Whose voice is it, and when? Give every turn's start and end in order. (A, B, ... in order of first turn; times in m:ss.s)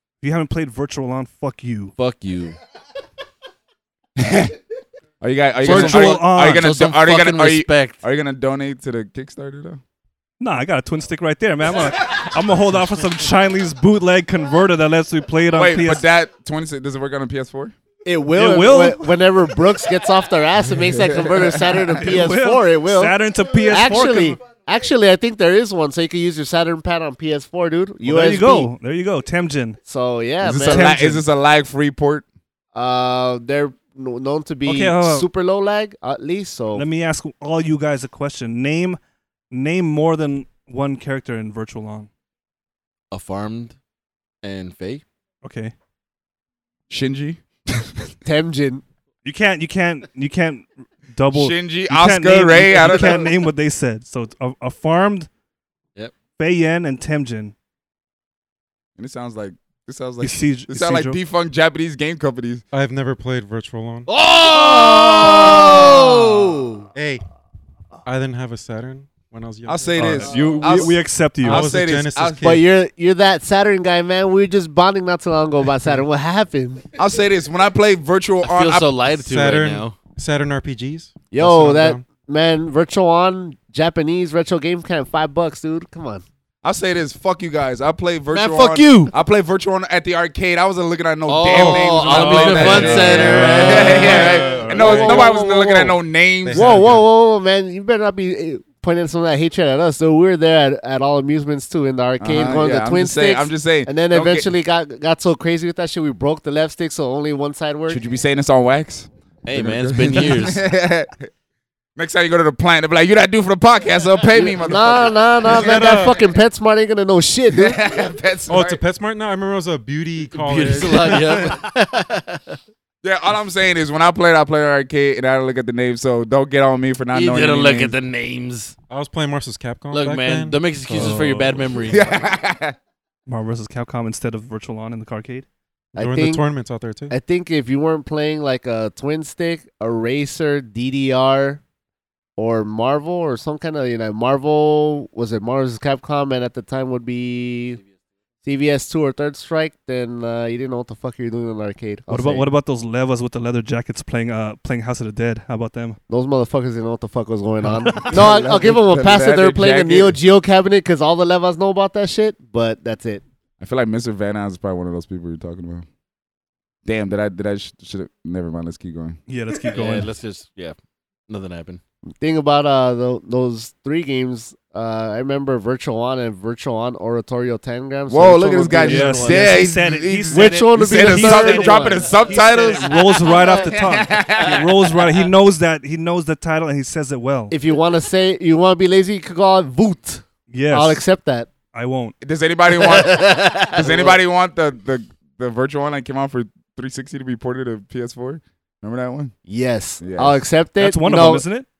0:00.2-0:01.9 A
0:02.0-0:02.6 B
0:04.2-0:04.5 C
0:05.2-0:09.8 C
0:05.6-0:08.0 B
0:05.6-0:06.7 A
0:10.4-0:16.1 A
0:15.5-0:17.7 C
0:18.0-0:23.2 D
0:18.3-0:19.2 A
0:20.7-0:22.0 C
0:22.0-0:24.4 A
0:23.7-0:28.7 D
0:28.0-0:29.8 A
0:29.8-0:31.0 D
0:30.4-0:32.2 C
0:30.6-0:31.2 A
0:32.7-0:36.8 D
0:34.6-0:35.3 A
0:36.7-0:39.0 A
0:39.5-0:42.1 A
0:43.1-0:43.8 B
0:44.4-0:45.0 B
0:45.4-0:45.7 A
0:46.9-0:48.1 C
0:48.2-0:48.8 D
0:49.2-0:55.3 A
0:51.3-0:53.3 C
0:56.4-0:57.5 A
0:59.0-1:02.6 C
1:00.2-1:01.2 A
1:02.7-1:04.1 E
1:04.1-1:06.7 B
1:04.7-1:06.8 D
1:06.9-1:07.2 E
1:08.0-1:10.4 E
1:09.7-1:12.6 C
1:10.0-1:11.7 A
1:11.4-1:12.6 E
1:12.4-1:16.9 D
1:17.0-1:18.9 C
1:18.4-1:20.0 B
1:19.2-1:22.0 E
1:21.3-1:26.2 D
1:26.6-1:37.0 C
1:28.3-1:29.1 B
1:31.3-1:34.3 B
1:31.5-1:35.4 E
1:33.4-1:33.9 A
1:34.0-1:35.9 D
1:36.4-1:37.0 E
1:36.5-1:48.0 D
1:42.2-1:44.5 C
1:47.9-1:51.3 C
1:49.4-1:50.6 B
1:52.0-1:55.9 C
1:54.4-1:57.8 D
1:55.4-1:56.3 E
1:57.5-1:58.8 C
1:58.5-2:01.6 E
2:00.3-2:02.6 B
2:03.0-2:08.0 C
2:07.1-2:08.7 B
2:08.9-2:11.6 E
2:09.9-2:12.0 B
2:10.9-2:11.5 A
2:11.9-2:12.8 C
2:13.3-2:15.4 A
2:15.9-2:16.5 D
2:16.0-2:17.1 E
2:17.1-2:21.6 D
2:22.4-2:27.8 D
2:28.4-2:32.5 D
2:32.1-2:36.0 A
2:36.1-2:43.2 D
2:37.6-2:38.1 A
2:38.1-2:40.2 C
2:43.6-2:45.8 C
2:46.8-2:49.2 C
2:49.3-2:50.1 A
2:49.7-2:50.8 B
2:51.3-2:51.8 B
2:52.2-2:59.5 D
2:58.1-3:05.0 C
2:58.8-3:07.5 A
3:00.3-3:02.6 D
3:07.5-3:11.5 D
3:10.5-3:11.0 A
3:11.7-3:12.2 A
3:12.2-3:19.3 C
3:12.8-3:14.2 D
3:19.5-3:21.4 D
3:20.0-3:20.4 C
3:20.8-3:21.7 A